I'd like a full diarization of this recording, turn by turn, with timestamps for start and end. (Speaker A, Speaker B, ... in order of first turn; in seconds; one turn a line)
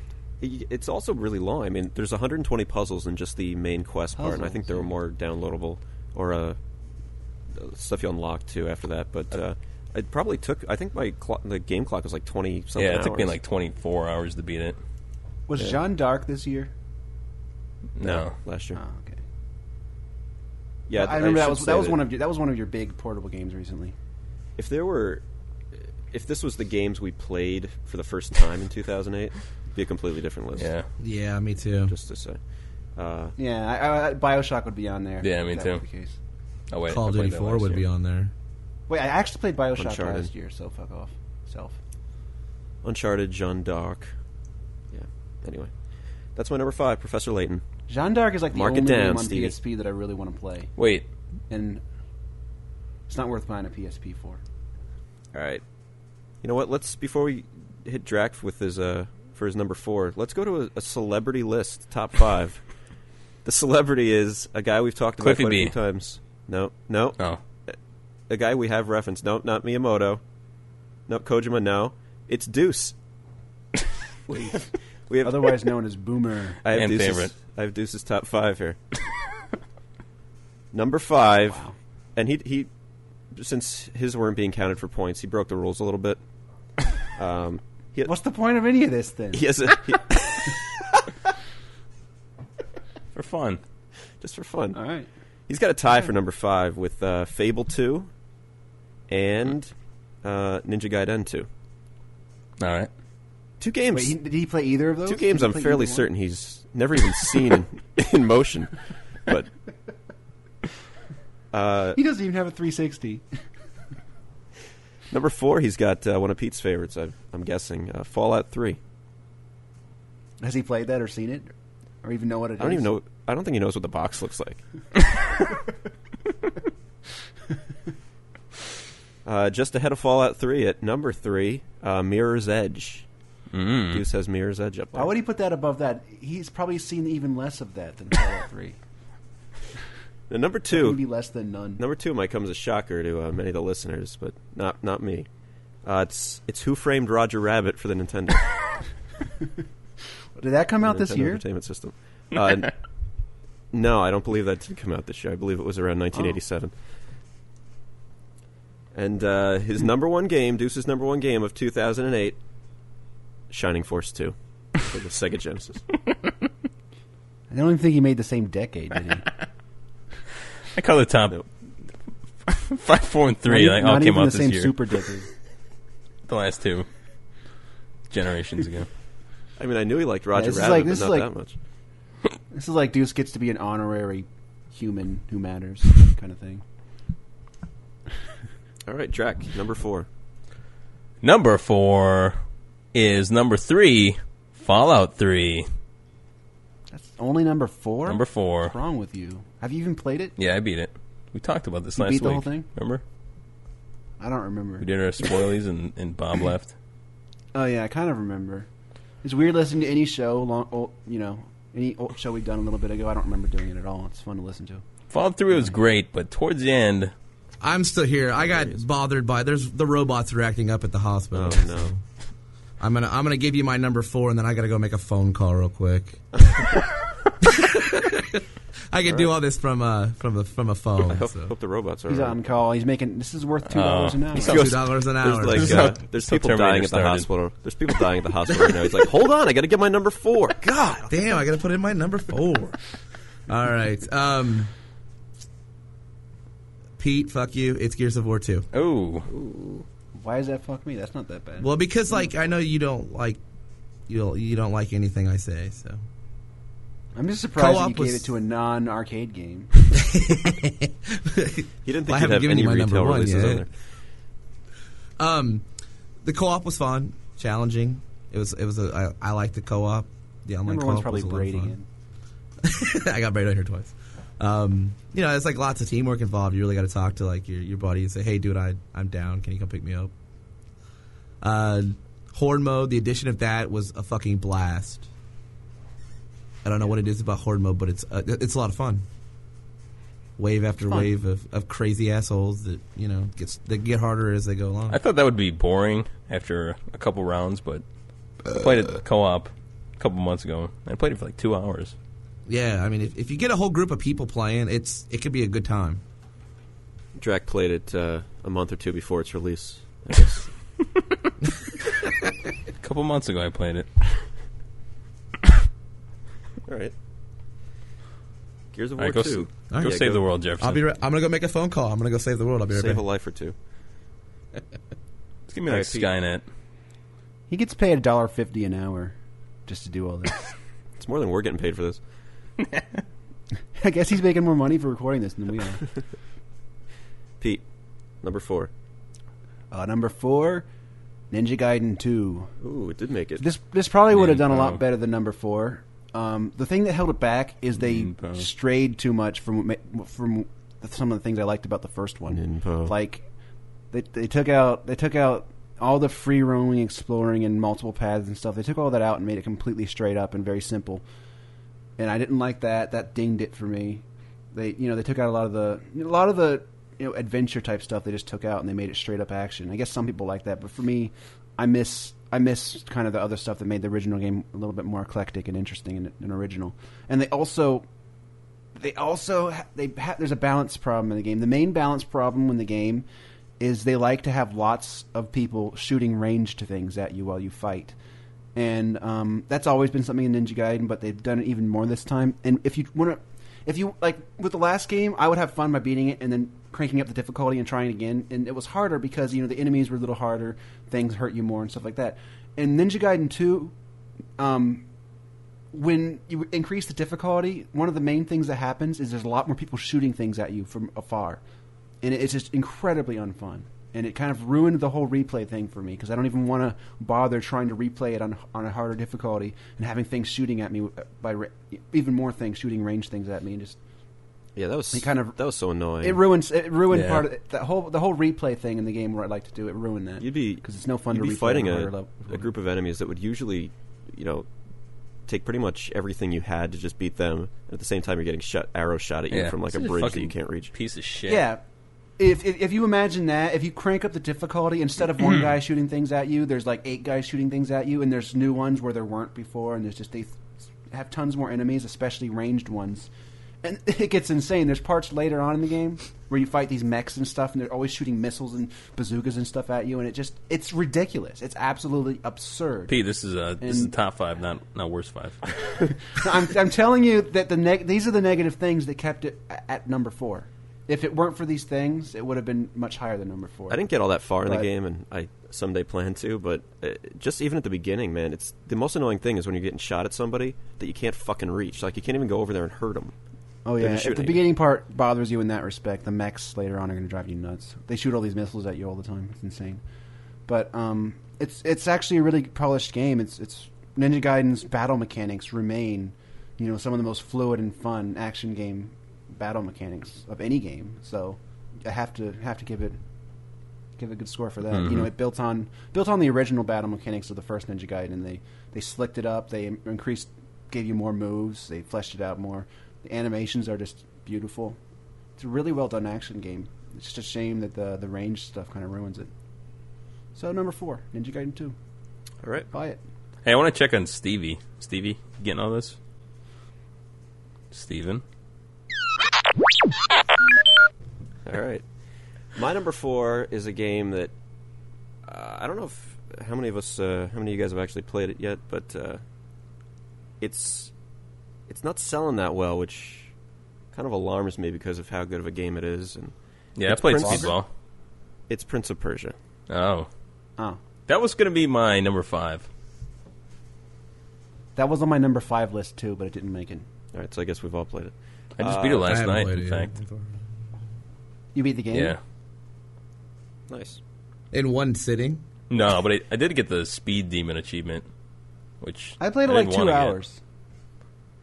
Speaker A: 0.4-6.6
Speaker B: 4.2-4.9
Speaker A: 7.5-13.4
Speaker C: 12.8-14.8
Speaker B: 15.5-16.7
Speaker C: 18.0-18.4
Speaker A: 18.0-18.8
Speaker B: 18.8-19.2
Speaker A: 20.9-22.0
Speaker B: 20.9-23.9
Speaker A: 24.6-25.2
Speaker A: 26.1-30.7
Speaker C: 30.6-30.9
Speaker D: 31.0-31.9
Speaker A: 31.9-32.4
Speaker A: 32.9-33.4
Speaker B: 33.4-36.2
Speaker C: 35.2-35.8
Speaker C: 36.7-37.8
Speaker D: 36.9-38.3
Speaker B: 38.9-41.8
Speaker A: 39.8-40.3
Speaker A: 42.8-44.1
Speaker A: 44.9-45.7
Speaker A: 46.4-47.7
Speaker B: 47.9-50.7
Speaker A: 48.5-49.6
Speaker C: 50.8-51.1
Speaker B: 51.5-51.8
Speaker B: 53.1-54.4
Speaker A: 55.3-55.6
Speaker A: 56.4-62.6
Speaker A: 63.4-67.8
Speaker C: 65.2-65.8
Speaker A: 68.3-70.2
Speaker A: 71.1-73.0
Speaker B: 74.3-74.5
Speaker A: 75.1-75.6
Speaker B: 75.2-76.6
Speaker A: 76.6-78.8
Speaker C: 76.7-77.3
Speaker A: 80.7-81.6
Speaker B: 81.5-81.8
Speaker A: 82.2-82.7
Speaker A: 83.3-86.2
Speaker A: 87.0-88.1
Speaker B: 88.0-89.5
Speaker A: 89.3-91.2
Speaker C: 93.2-93.6
Speaker A: 94.2-94.8
Speaker B: 94.7-95.1
Speaker A: 95.5-98.1
Speaker B: 95.9-96.1
Speaker A: 99.1-101.5
Speaker C: 102.6-102.9
Speaker A: 103.6-104.2
Speaker B: 103.9-106.1
Speaker A: 105.0-109.5
Speaker A: 111.5-112.0
Speaker B: 112.0-113.2
Speaker A: 115.1-118.8
Speaker B: 120.4-121.5
Speaker B: 122.0-122.9
Speaker A: 122.6-124.6
Speaker A: 129.2-133.1
Speaker C: 133.5-134.1
Speaker A: 133.9-135.1
Speaker B: 134.9-138.8
Speaker A: 140.3-141.0
Speaker B: 140.7-141.8
Speaker A: 141.8-145.3
Speaker A: 145.8-148.5
Speaker B: 150.4-151.4
Speaker A: 150.8-152.8
Speaker A: 153.7-156.7
Speaker A: 158.9-162.4
Speaker A: 163.5-165.9
Speaker B: 167.5-169.3
Speaker C: 170.7-171.4
Speaker C: 172.5-174.8
Speaker B: 173.5-175.3
Speaker C: 176.3-176.9
Speaker C: 178.1-178.9
Speaker A: 179.6-181.6
Speaker B: 180.3-181.3
Speaker B: 182.5-186.6
Speaker A: 188.9-190.1
Speaker C: 191.2-192.4
Speaker C: 192.9-195.7
Speaker B: 196.9-200.3
Speaker C: 198.1-198.8
Speaker C: 200.4-203.0
Speaker B: 202.0-202.7
Speaker B: 204.2-204.9
Speaker C: 204.8-206.7
Speaker B: 207.5-208.7
Speaker B: 209.2-214.8
Speaker C: 215.1-217.1
Speaker D: 217.6-222.0
Speaker A: 218.4-218.8
Speaker A: 221.3-221.9
Speaker D: 222.8-226.7
Speaker D: 227.4-231.6
Speaker A: 229.1-229.3
Speaker A: 231.1-232.4
Speaker B: 232.1-234.7
Speaker C: 233.7-234.7
Speaker D: 234.4-235.9
Speaker A: 234.5-240.7
Speaker C: 235.5-237.3
Speaker B: 240.7-241.2
Speaker D: 241.1-242.8
Speaker D: 243.5-244.7
Speaker D: 247.0-248.7
Speaker C: 248.7-249.3
Speaker A: 249.3-249.8
Speaker B: 250.2-252.3
Speaker D: 251.6-253.4
Speaker D: 254.1-256.0
Speaker B: 257.1-259.7
Speaker D: 257.6-258.3
Speaker D: 259.9-263.6
Speaker A: 261.9-263.7
Speaker D: 265.2-265.7
Speaker D: 266.2-271.8
Speaker B: 270.6-271.9
Speaker D: 272.6-280.1
Speaker D: 281.4-285.1
Speaker D: 286.6-289.1
Speaker D: 290.4-295.0
Speaker B: 290.8-291.1
Speaker C: 294.9-297.8
Speaker C: 298.5-301.9
Speaker D: 302.5-306.0
Speaker A: 307.2-310.5
Speaker C: 312.8-313.9
Speaker A: 316.7-316.9
Speaker A: 318.7-320.2
Speaker C: 319.0-320.8
Speaker D: 319.7-320.1
Speaker D: 320.6-323.0
Speaker A: 322.7-323.6
Speaker C: 325.5-326.4
Speaker A: 325.7-326.1
Speaker B: 327.5-329.1
Speaker B: 329.7-330.5
Speaker A: 331.0-332.0
Speaker B: 333.8-335.8
Speaker A: 338.2-338.7
Speaker B: 339.7-340.7
Speaker B: 341.3-342.5
Speaker A: 342.6-343.4
Speaker B: 343.4-353.3
Speaker C: 344.1-344.8
Speaker C: 347.8-348.5
Speaker A: 352.3-352.9
Speaker B: 353.9-361.0
Speaker B: 362.0-377.9
Speaker B: 378.8-383.1
Speaker B: 383.6-388.0
Speaker B: 388.6-403.7
Speaker B: 404.4-404.9
Speaker B: 405.7-411.4
Speaker B: 412.0-423.8
Speaker A: 424.6-426.2
Speaker B: 424.9-425.4
Speaker B: 426.0-432.5
Speaker C: 426.9-427.2
Speaker A: 430.2-434.5
Speaker A: 435.3-440.7
Speaker C: 439.3-441.5
Speaker B: 441.3-441.6
Speaker B: 442.2-453.1
Speaker B: 453.6-463.0
Speaker C: 462.9-465.5
Speaker B: 463.6-463.9
Speaker B: 466.1-473.8
Speaker A: 473.7-483.1
Speaker B: 474.4-474.7
Speaker B: 483.6-489.8
Speaker A: 483.8-484.5
Speaker B: 490.5-503.0
Speaker B: 504.0-514.8
Speaker C: 504.7-505.1
Speaker B: 515.4-519.3
Speaker B: 520.4-521.8
Speaker A: 522.4-522.7
Speaker B: 522.7-523.0
Speaker C: 523.5-526.0
Speaker C: 527.7-528.2
Speaker A: 531.5-531.8
Speaker A: 532.5-534.3
Speaker A: 535.3-539.2
Speaker A: 540.4-540.9
Speaker A: 541.7-543.3
Speaker A: 543.9-547.5
Speaker C: 546.8-547.7
Speaker B: 547.1-547.6
Speaker A: 548.5-549.4
Speaker C: 549.7-550.1
Speaker C: 551.1-552.7
Speaker B: 554.8-556.9
Speaker A: 557.1-559.2
Speaker C: 558.6-559.9
Speaker D: 559.0-560.4
Speaker B: 561.5-562.2
Speaker C: 561.9-562.2
Speaker A: 563.7-564.0
Speaker D: 564.5-565.4
Speaker C: 565.7-568.1
Speaker C: 568.8-570.2
Speaker B: 569.2-570.4